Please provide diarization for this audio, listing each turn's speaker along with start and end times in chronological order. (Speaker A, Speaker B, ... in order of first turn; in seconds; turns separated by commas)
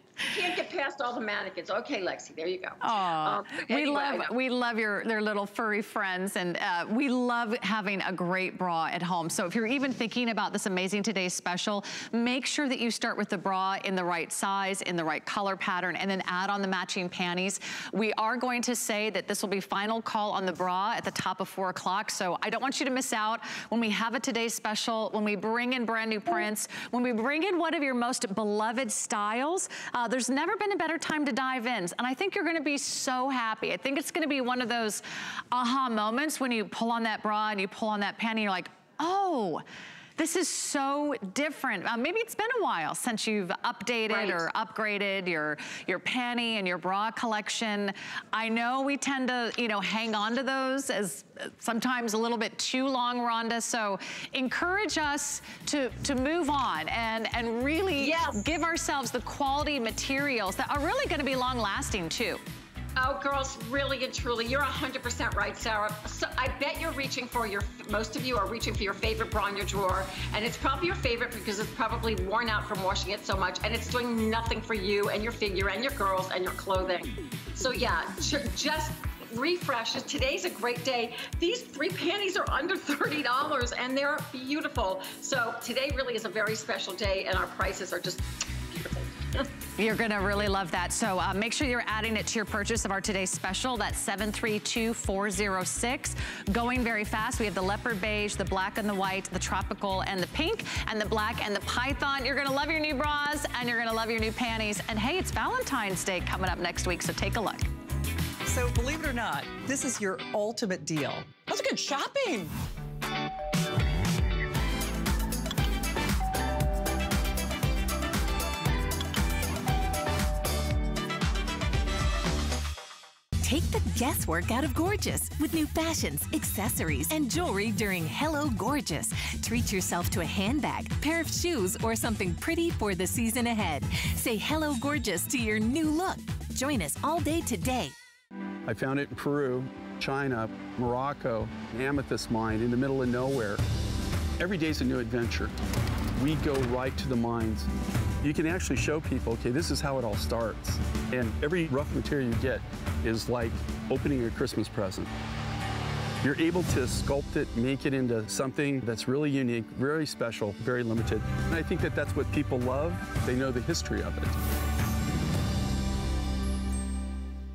Speaker A: 0.2-4.3, Speaker B: 2.8-39.6, Speaker B: 40.2-62.4, Speaker A: 44.1-44.5, Speaker A: 58.0-58.5, Speaker A: 63.0-89.5, Speaker B: 89.8-107.6, Speaker C: 108.5-112.5, Speaker D: 123.4-137.9, Speaker E: 138.7-143.6, Speaker E: 144.4-145.5, Speaker E: 146.2-147.7, Speaker E: 148.2-155.1, Speaker E: 156.2-164.4